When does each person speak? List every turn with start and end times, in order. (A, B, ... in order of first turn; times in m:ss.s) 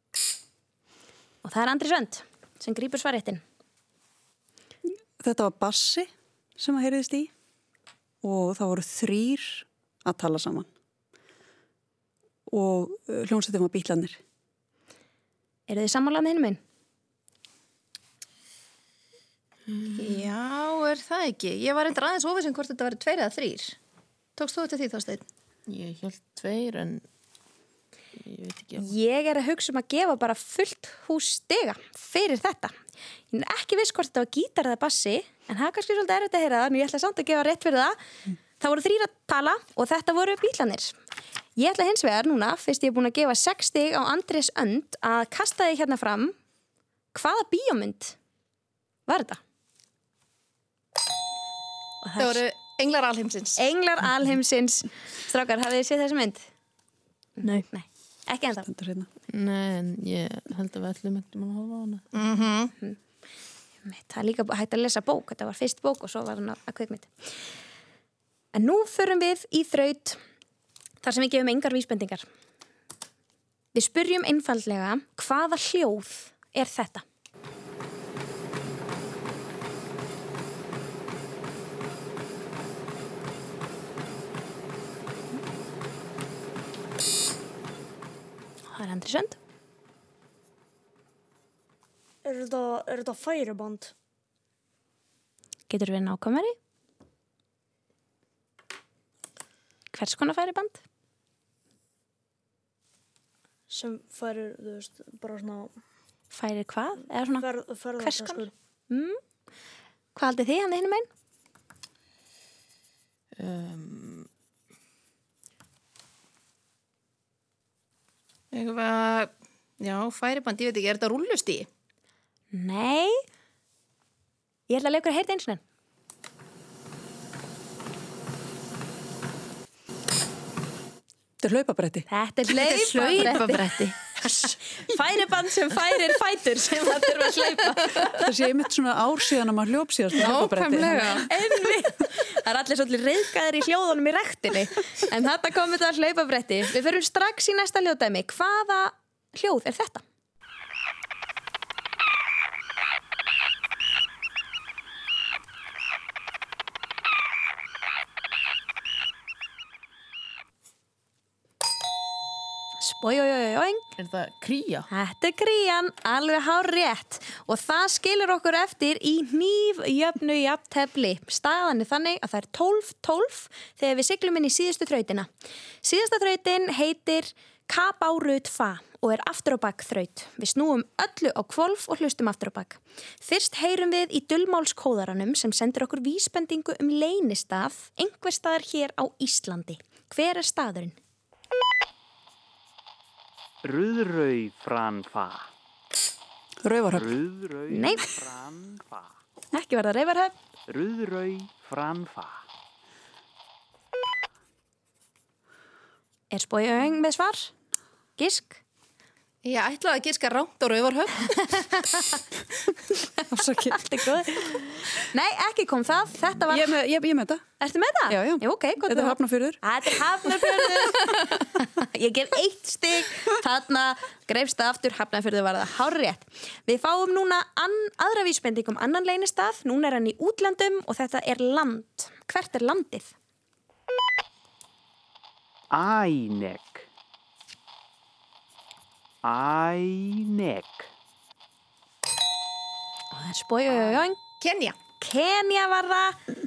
0:01.4-0:03.4 A
0:05.2-0:06.1 B
0:06.6-0:07.3 B
0:08.2-0:10.7 B
0:12.5-0:14.2 B
0:15.7-0:16.6 A
0:20.0-0:23.8 C
0:24.4-0:25.2 C
0:25.7-0:27.0 D
0:28.2-0:28.9 D
0:28.8-0:32.7 A
0:33.3-0:38.0 A
0:38.6-0:40.9 A
0:41.6-0:46.3 A
0:47.1-0:48.2 A
0:49.1-0:49.4 A
0:52.0-0:52.4 A
0:52.2-0:53.6 C
0:53.6-0:56.4 A
0:57.4-0:58.7 A
0:58.6-0:59.1 B
0:59.3-1:02.0 D
1:02.1-1:02.7 C
1:03.8-1:07.1 A
1:08.5-1:10.2 A
1:11.0-1:12.2 A
1:13.7-1:17.0 A
1:28.7-1:29.4 A
1:32.2-1:33.9 E
1:35.7-1:36.5 A
1:39.9-1:40.8 A
1:43.7-1:45.7 E
1:46.3-1:47.5 A
1:47.4-1:48.5 E
1:48.0-1:49.2 A
1:50.1-1:51.1 A
1:53.4-1:54.3 D
1:58.5-2:01.7 C
2:02.5-2:03.1 A
2:04.7-2:05.6 A
2:11.4-2:12.1 B
2:12.1-2:13.6 A
2:12.5-2:14.5 C
2:14.2-2:18.2 A
2:18.2-2:21.1 B
2:20.1-2:21.3 C
2:21.1-2:30.0 A
2:42.8-2:43.8 A
2:44.0-2:44.9 D
2:44.9-2:55.3 A
2:55.8-3:10.9 A
3:13.6-3:15.5 F
3:16.6-3:17.2 B
3:17.0-3:19.1 F
3:17.7-3:18.1 A
3:19.5-3:20.3 A
3:20.7-3:22.4 F
3:26.3-3:27.5 A
3:28.2-3:28.6 A
3:29.4-3:31.6 C
3:31.8-3:32.2 A
3:33.0-3:36.8 A
3:33.3-3:34.1 B
3:36.5-3:37.4 B
3:37.6-3:53.1 A
3:38.1-3:39.6 B
3:55.7-3:56.8 F
3:59.2-4:00.9 F
4:03.1-4:04.2 A
4:04.4-4:04.8 C
4:05.0-4:06.2 A